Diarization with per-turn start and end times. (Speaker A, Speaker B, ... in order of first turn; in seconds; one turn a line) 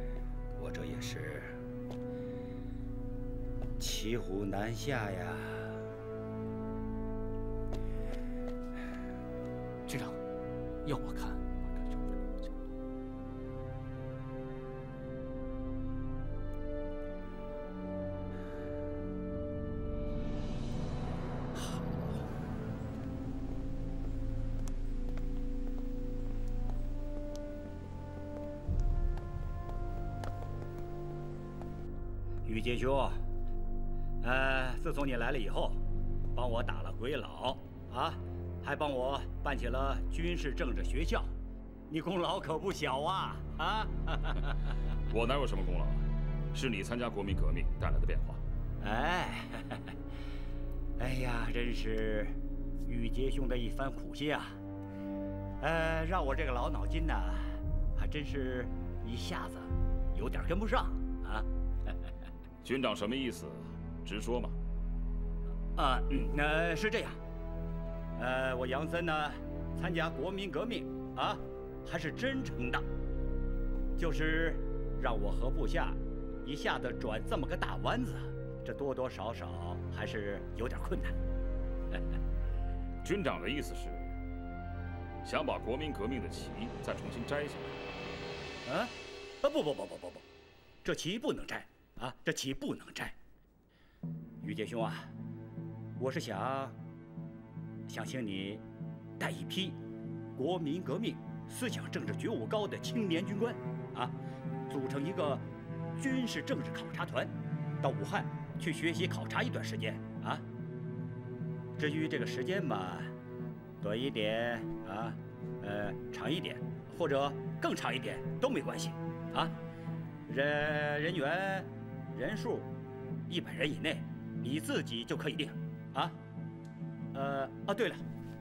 Speaker A: 0.5-1.6
Speaker A: 3.8-5.8
Speaker B: 9.9-10.2
Speaker B: 10.8-12.6
Speaker A: 32.5-33.2
Speaker A: 34.2-35.8
Speaker A: 36.4-41.3
Speaker A: 41.9-44.6
Speaker C: 45.1-48.4
Speaker A: 48.8-50.0
Speaker A: 51.0-54.6
Speaker A: 55.6-62.0
Speaker C: 62.6-64.6
Speaker A: 65.8-67.2
Speaker A: 68.2-72.8
Speaker A: 74.0-81.2
Speaker C: 83.0-84.1
Speaker C: 85.2-87.8
Speaker A: 88.7-90.2
Speaker A: 90.8-93.2
Speaker A: 94.4-95.1
Speaker A: 96.0-96.8
Speaker A: 97.9-98.7
Speaker A: 99.2-99.8
Speaker A: 100.4-104.2
Speaker A: 104.7-110.5
Speaker A: 111.8-113.1
Speaker A: 113.8-119.6
Speaker A: 120.3-122.7
Speaker A: 123.3-126.2
Speaker A: 127.1-128.0